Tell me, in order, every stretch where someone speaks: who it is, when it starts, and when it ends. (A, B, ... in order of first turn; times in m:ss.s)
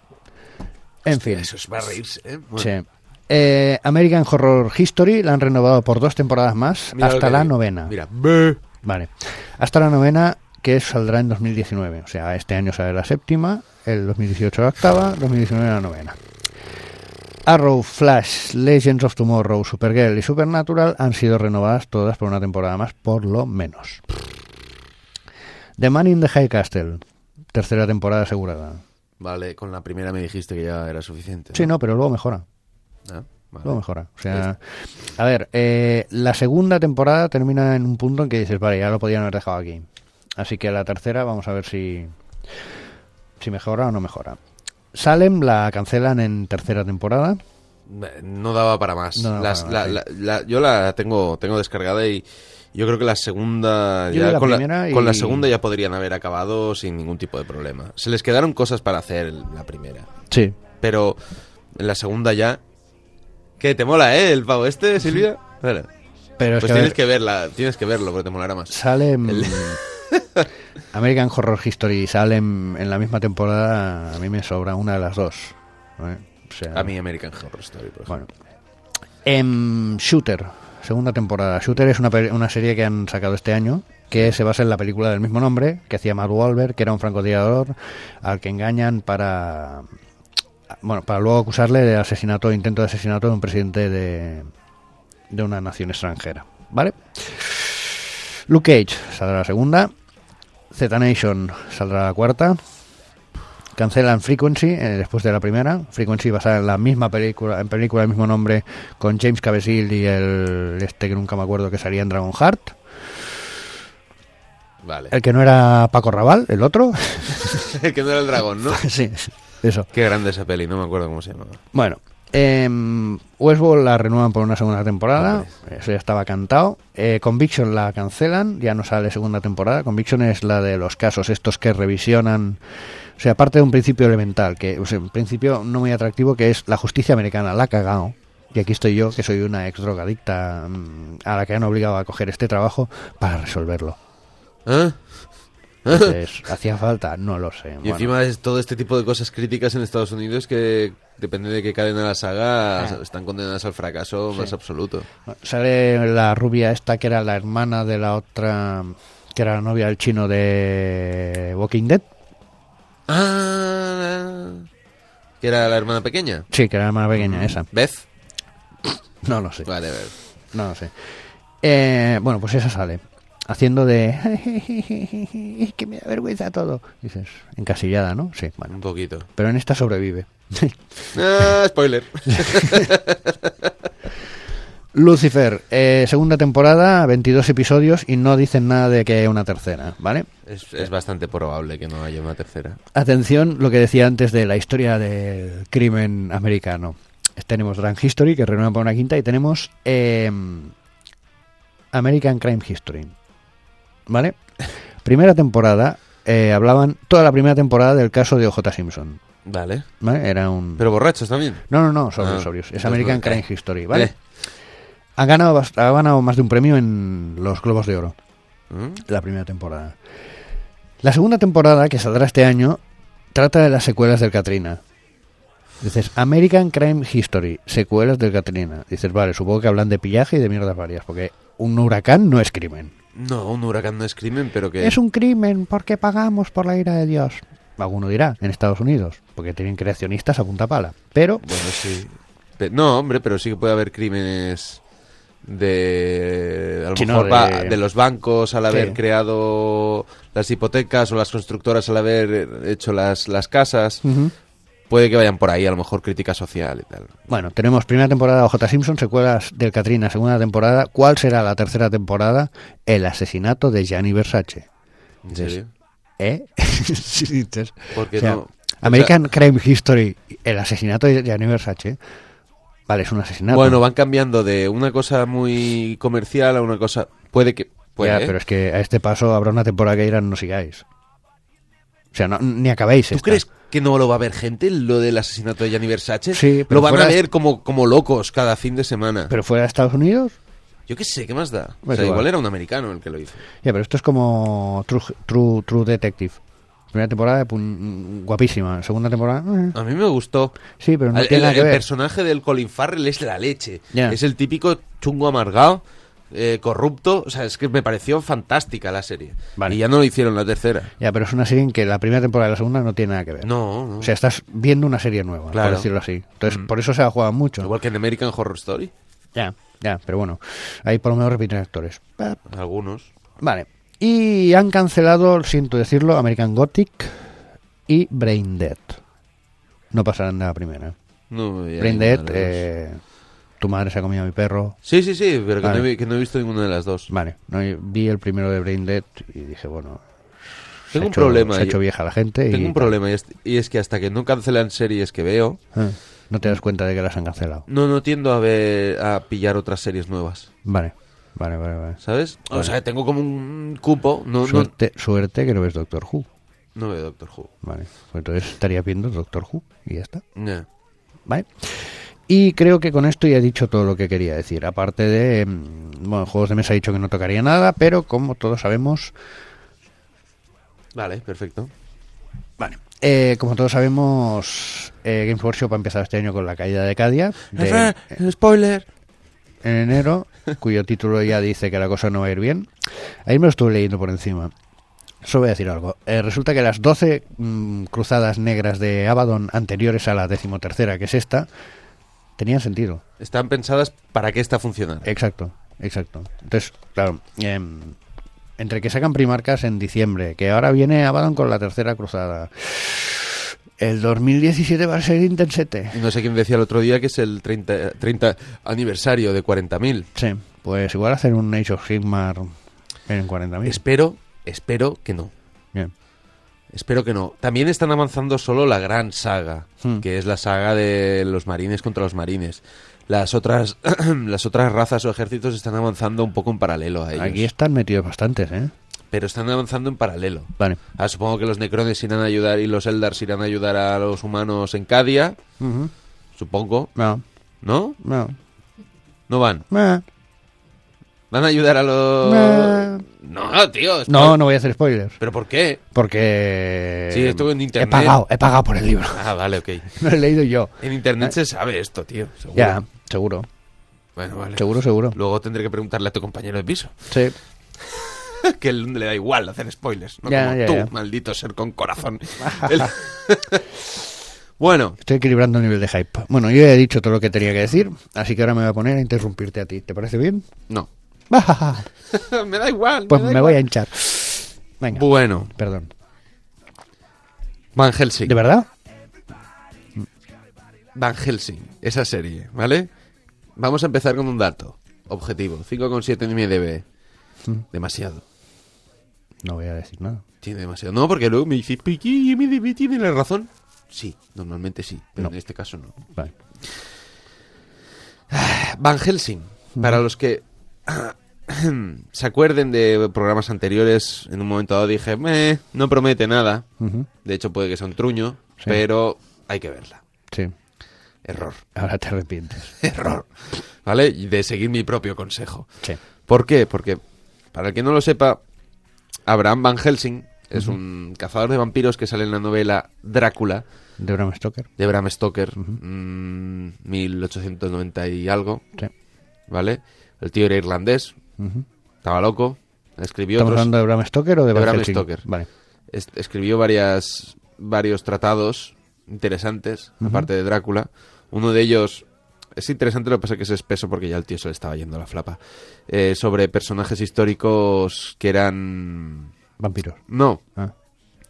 0:01.0-0:01.5 A
0:01.1-0:02.7 B
0:02.6-0:07.9 A
0:06.9-0:08.6 B
0:08.8-0:16.2 A
0:17.4-0:24.0 A
0:25.8-0:27.0 A
0:27.5-0:28.8 A
0:29.2-0:31.7 B
0:31.5-0:32.4 A
0:33.0-0:33.8 B
0:33.6-0:34.6 A
0:35.1-0:42.2 A
0:43.4-0:44.4 A
0:44.9-0:47.4 A
0:47.9-1:00.1 B
0:49.1-0:50.0 A
0:54.1-0:55.5 A
1:00.3-1:00.6 A
1:00.8-1:01.2 B
1:01.7-1:02.6 B
1:03.6-1:05.9 B
1:06.4-1:07.0 A
1:06.6-1:10.5 B
1:08.7-1:09.8 A
1:10.9-1:16.9 A
1:16.7-1:18.2 B
1:19.2-1:29.9 A
1:30.7-1:34.5 A
1:35.3-1:39.9 A
1:40.7-1:42.6 A
1:43.7-1:52.8 A
1:54.8-1:55.1 B
1:55.1-1:57.7 A
1:57.4-1:58.8 B
1:58.7-1:59.9 A
1:59.9-2:01.6 B
2:01.7-2:12.6 A
2:05.2-2:05.5 B
2:13.2-2:24.0 A
2:24.6-2:25.3 B
2:25.8-2:26.2 B
2:25.9-2:28.1 A
2:27.8-2:35.1 B
2:35.3-2:42.1 A
2:43.1-2:44.7 B
2:45.4-2:46.5 B
2:46.5-2:47.7 A
2:47.1-2:48.0 B
2:49.2-2:49.7 A
2:49.6-2:50.1 B
2:50.5-2:51.1 A
2:51.6-2:58.7 A
2:58.7-2:59.3 B
2:59.4-3:01.5 A
3:01.1-3:03.7 B
3:02.3-3:02.9 A
3:04.9-3:10.3 A
3:10.4-3:12.8 B
3:12.9-3:20.7 A
3:21.9-3:23.1 A
3:24.1-3:24.4 A
3:25.0-3:29.2 A
3:29.4-3:29.9 B
3:30.0-3:30.8 A
3:30.8-3:31.6 B
3:31.7-3:34.1 A
3:32.2-3:34.2 B
3:35.2-3:38.2 A
3:38.7-3:39.0 B
3:39.0-3:40.0 A
3:41.0-3:42.8 A
3:43.3-3:44.8 A
3:45.8-3:52.9 A
3:53.1-3:55.0 B
3:54.8-4:01.5 A
4:01.4-4:04.8 B
4:05.4-4:14.0 B
4:07.0-4:07.8 A
4:08.7-4:09.0 A
4:14.0-4:14.3 A
4:14.9-4:17.2 B
4:17.3-4:24.7 A
4:25.2-4:25.7 B
4:26.2-4:32.0 A
4:27.9-4:29.2 B
4:32.9-4:33.8 A
4:33.5-4:38.4 B
4:38.0-4:40.8 A
4:42.1-4:43.4 A
4:43.1-4:49.3 B
4:46.3-4:47.2 A
4:49.3-4:50.4 A
4:50.9-4:53.4 B
4:51.8-4:52.3 A
4:53.6-4:56.4 A
4:56.9-4:59.8 A
4:59.7-5:00.5 B
5:00.8-5:01.8 A
5:01.1-5:10.9 B
5:03.9-5:04.2 A
5:11.0-5:17.7 A
5:13.4-5:14.1 B
5:15.5-5:15.9 B
5:17.6-5:18.9 B
5:19.3-5:22.4 A
5:22.4-5:23.1 B
5:23.4-5:27.3 A
5:27.9-5:29.0 A
5:29.9-5:30.9 A
5:31.3-5:32.6 B
5:31.8-5:33.0 A
5:33.6-5:34.8 A
5:34.8-5:37.1 B
5:35.6-5:35.9 A
5:37.1-5:42.9 A
5:40.9-5:41.8 B
5:42.5-5:45.6 B
5:45.7-5:47.6 A
5:47.7-5:50.5 B
5:50.6-5:52.0 A
5:52.0-5:54.7 B
5:52.5-5:52.8 A
5:54.4-5:56.3 A
5:56.8-5:57.5 B
5:57.6-6:00.2 A
6:00.4-6:00.7 B
6:01.3-6:09.1 A
6:10.9-6:11.7 B
6:12.6-6:18.0 A
6:17.5-6:18.8 B
6:19.6-6:22.7 A
6:23.2-6:24.5 A
6:25.2-6:31.5 A
6:32.4-6:33.0 A
6:33.2-6:35.1 B
6:35.0-6:38.0 A
6:38.6-6:46.0 A
6:45.9-6:50.1 B
6:50.1-6:52.5 A
6:53.1-6:53.8 A
6:53.6-6:55.3 B
6:56.7-7:07.5 B
7:07.1-7:08.7 A
7:09.1-7:15.4 B
7:15.6-7:15.9 A
7:16.4-7:16.9 B
7:17.0-7:17.2 A
7:17.6-7:18.0 B
7:18.0-7:18.4 A
7:19.3-7:19.6 B
7:19.7-7:20.0 A
7:21.3-7:24.4 B
7:22.2-7:23.0 A
7:24.1-7:25.2 A
7:25.2-7:25.8 B
7:25.9-7:29.2 A
7:27.1-7:28.2 B
7:29.1-7:29.9 B
7:29.9-7:31.3 A
7:30.8-7:32.8 B
7:32.6-7:33.5 A
7:34.2-7:37.0 B
7:34.6-7:35.2 A
7:37.1-7:37.3 A
7:37.8-7:43.7 B
7:40.2-7:40.9 A
7:42.4-7:42.9 A
7:44.6-7:45.0 B
7:45.0-7:50.5 A
7:51.3-7:51.9 A
7:52.1-7:53.6 B
7:53.1-7:55.9 A
7:54.9-7:55.5 B
7:57.7-7:58.4 B
7:58.2-7:58.7 A
8:00.9-8:02.9 B
8:03.6-8:06.8 B
8:07.7-8:08.2 B
8:09.4-8:10.2 A
8:10.4-8:16.0 B
8:18.3-8:26.6 B
8:26.8-8:27.1 A
8:27.2-8:30.0 B
8:31.2-8:31.6 B
8:31.7-8:32.7 A
8:32.8-8:35.7 B
8:36.3-8:37.0 B
8:37.5-8:38.4 B
8:39.3-8:43.6 B
8:44.0-8:44.7 A
8:44.8-8:48.6 B
8:49.5-8:51.2 B
8:51.4-8:51.6 A
8:52.0-8:53.7 B
8:53.4-8:55.5 A
8:54.5-8:55.2 B
8:55.9-9:09.3 B
9:00.0-9:00.3 A
9:09.6-9:10.0 A
9:10.1-9:10.4 B